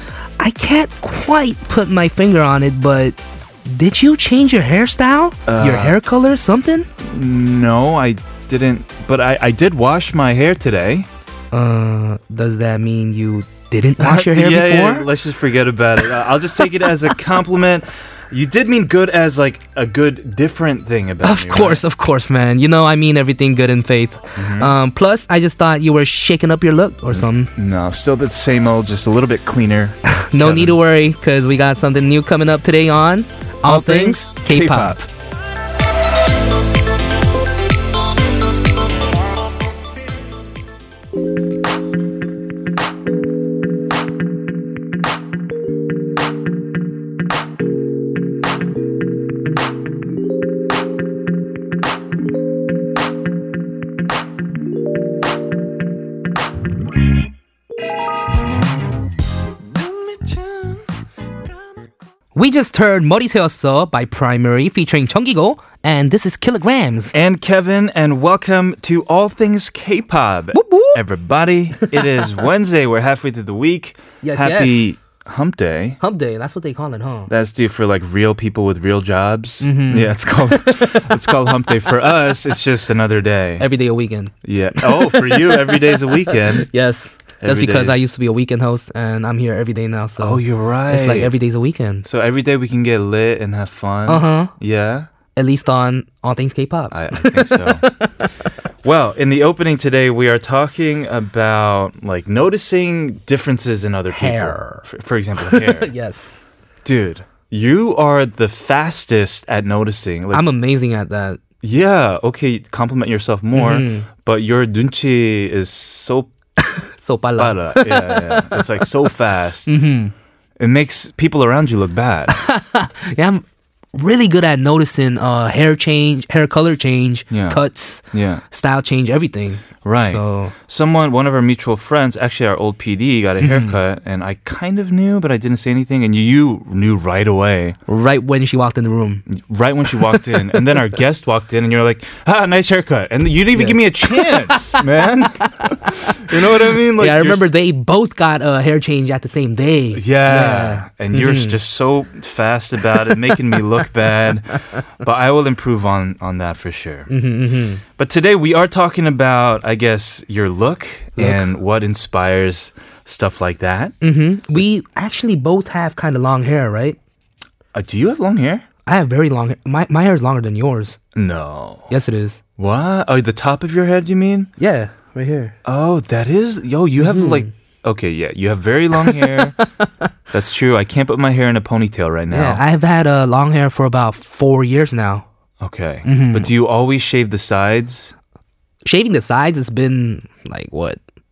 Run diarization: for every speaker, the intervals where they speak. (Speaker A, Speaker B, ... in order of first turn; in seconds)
Speaker A: 0.4-6.9, 11.5-15.1, 21.2-27.5, 30.1-35.0, 62.4-67.1, 70.5-71.0, 71.8-72.1, 74.2-74.9, 76.0-77.3, 79.6-81.2, 83.6-92.0, 94.1-94.5, 95.4-98.3, 104.1-104.8, 105.4-106.4, 110.3-111.4, 113.5-114.1, 116.6-119.1, 119.7-120.1, 122.3-123.4, 124.0-130.5, 133.4-133.8, 137.9-139.2, 139.9-140.8, 143.5-151.6, 152.9-153.6, 157.1-157.8, 161.2-161.5, 164.0-167.0, 168.9-171.0, 171.9-172.4, 174.6-175.6, 177.0-177.5, 179.0-180.1, 182.3-185.3, 186.1-186.5, 188.8-191.0
Speaker B: 5.5-6.0, 7.0-11.1, 14.0-21.8, 24.4-24.7, 27.1-30.8, 33.6-35.0, 60.0-60.8, 67.1-76.0, 77.3-83.7, 84.5-86.7, 87.4-88.0, 90.2-91.3, 92.1-95.1, 96.9-97.9, 98.8-105.9, 106.8-110.5, 111.6-116.3, 117.4-119.7, 120.6-122.4, 127.3-127.6, 128.1-128.4, 129.8-137.8, 139.3-147.5, 149.9-157.1, 158.0-163.9, 167.7-168.7, 171.2-171.9, 172.6-174.5, 175.7-179.6, 180.3-182.6, 185.6-188.2